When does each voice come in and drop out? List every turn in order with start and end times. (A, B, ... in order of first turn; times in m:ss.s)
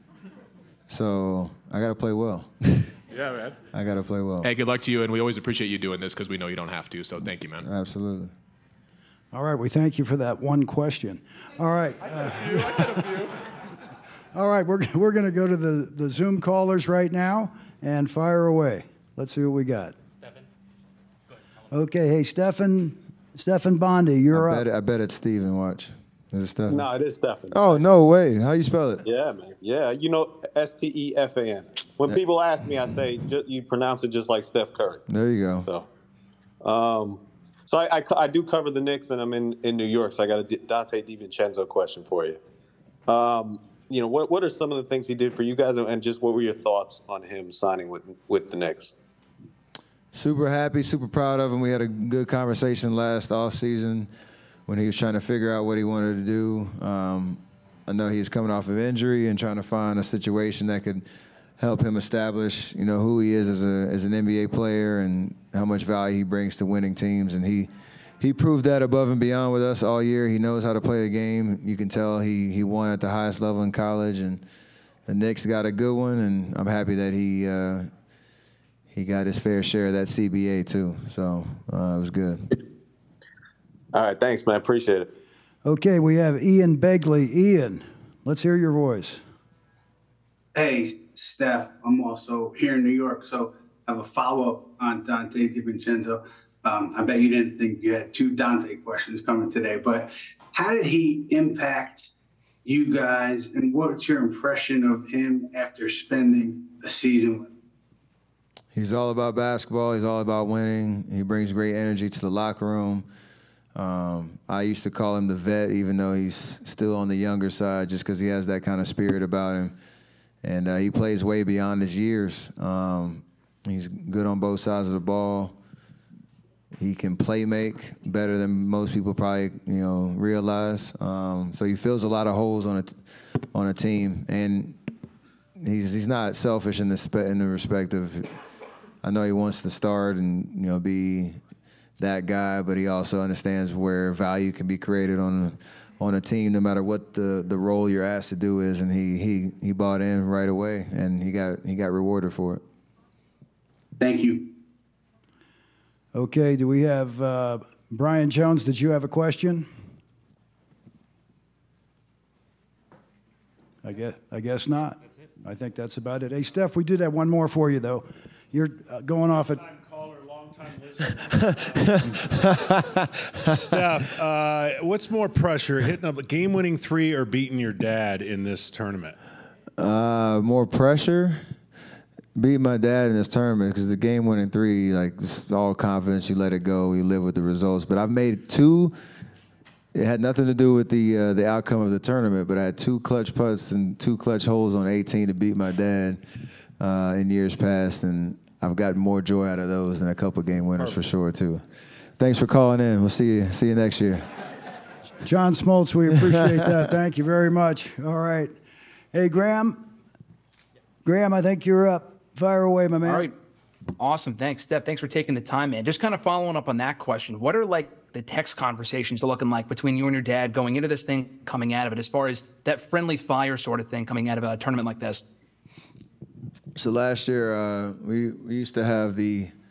0:00.9-0:03.0 A
0:03.7-0:04.5 A
0:04.4-0:07.7 B
0:07.6-0:08.3 A
0:09.3-0:13.3 C
0:14.3-0:20.0 C
0:21.7-0:24.6 C
0:24.3-0:26.8 A
0:26.7-0:27.8 D
0:27.5-0:29.1 A
0:29.0-0:35.0 D
0:35.1-0:35.7 A
0:36.6-0:42.4 D
0:43.1-0:48.9 D
0:50.1-0:54.1 A
0:54.7-1:01.0 A
1:01.6-1:14.4 A
1:15.1-1:17.9 A
1:18.9-1:22.6 A
1:23.9-1:25.1 D
1:25.6-1:29.2 C
1:30.5-1:42.1 E
1:42.6-1:47.5 E
1:48.7-1:53.1 A
1:53.8-1:59.8 A
2:00.4-2:05.6 A
2:06.8-2:14.8 A
2:15.6-2:18.3 A
2:19.0-2:21.4 A
2:22.0-2:32.6 A
2:34.0-2:34.5 E
2:36.1-2:39.7 C
2:43.8-2:49.6 C
2:49.5-2:52.8 F
2:51.3-2:54.0 A
2:53.4-2:59.2 F
2:59.8-3:01.4 A
3:02.4-3:09.0 A
3:09.9-3:21.6 A
3:22.2-3:24.3 A
3:25.2-3:28.6 C
3:26.3-3:26.7 A
3:29.1-3:29.9 C
3:31.0-3:33.3 C
3:33.0-3:33.4 G
3:34.0-3:45.2 G
3:46.8-3:49.5 A